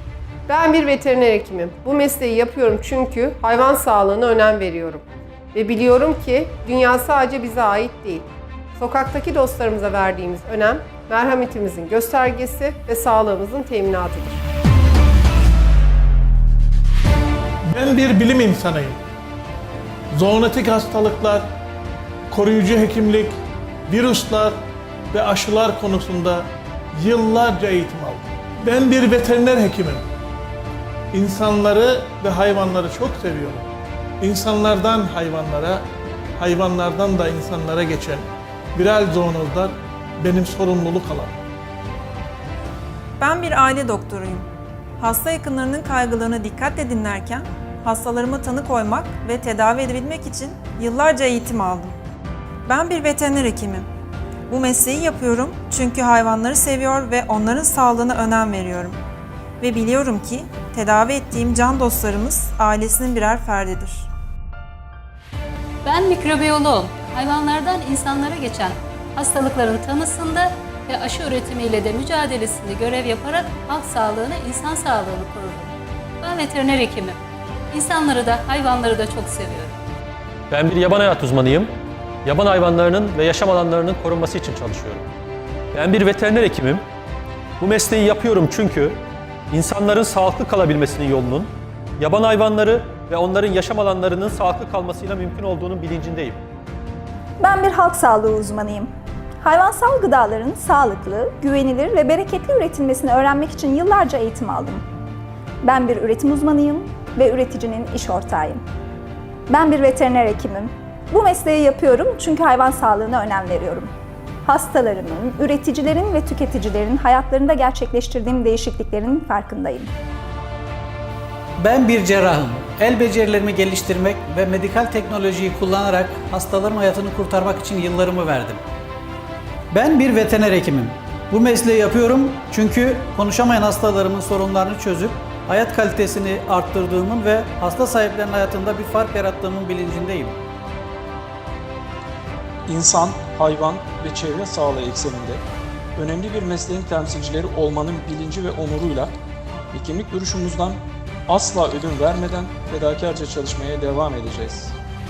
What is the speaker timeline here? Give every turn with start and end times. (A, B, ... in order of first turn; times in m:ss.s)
0:00.5-0:14.4 A
0:17.7-0:19.0 B
0:20.2-0:21.4 B
0:22.3-0:23.4 B
0:23.9-0:24.6 B
0:25.1-0:30.0 B
0:31.1-0:33.7 B
0:34.2-0:35.8 B
0:36.4-0:38.2 B
0:38.8-0:41.3 B
0:43.2-0:44.5 C
0:45.0-0:52.0 C
0:52.7-0:53.9 C
0:54.5-0:59.0 C
0:59.6-1:04.1 C
1:05.8-1:17.2 D
1:17.7-1:19.8 D
1:20.5-1:21.7 E
1:22.2-1:25.1 E
1:25.7-1:26.8 E
1:27.6-1:29.0 E
1:29.5-1:36.4 E
1:37.4-1:38.9 F
1:39.4-1:44.8 F
1:45.6-1:48.6 F
1:49.5-1:53.9 F
1:54.5-1:59.9 F
2:01.6-2:08.6 G
2:09.7-2:20.4 G
2:22.7-2:25.4 H
2:26.0-2:29.1 H
2:29.7-2:34.8 H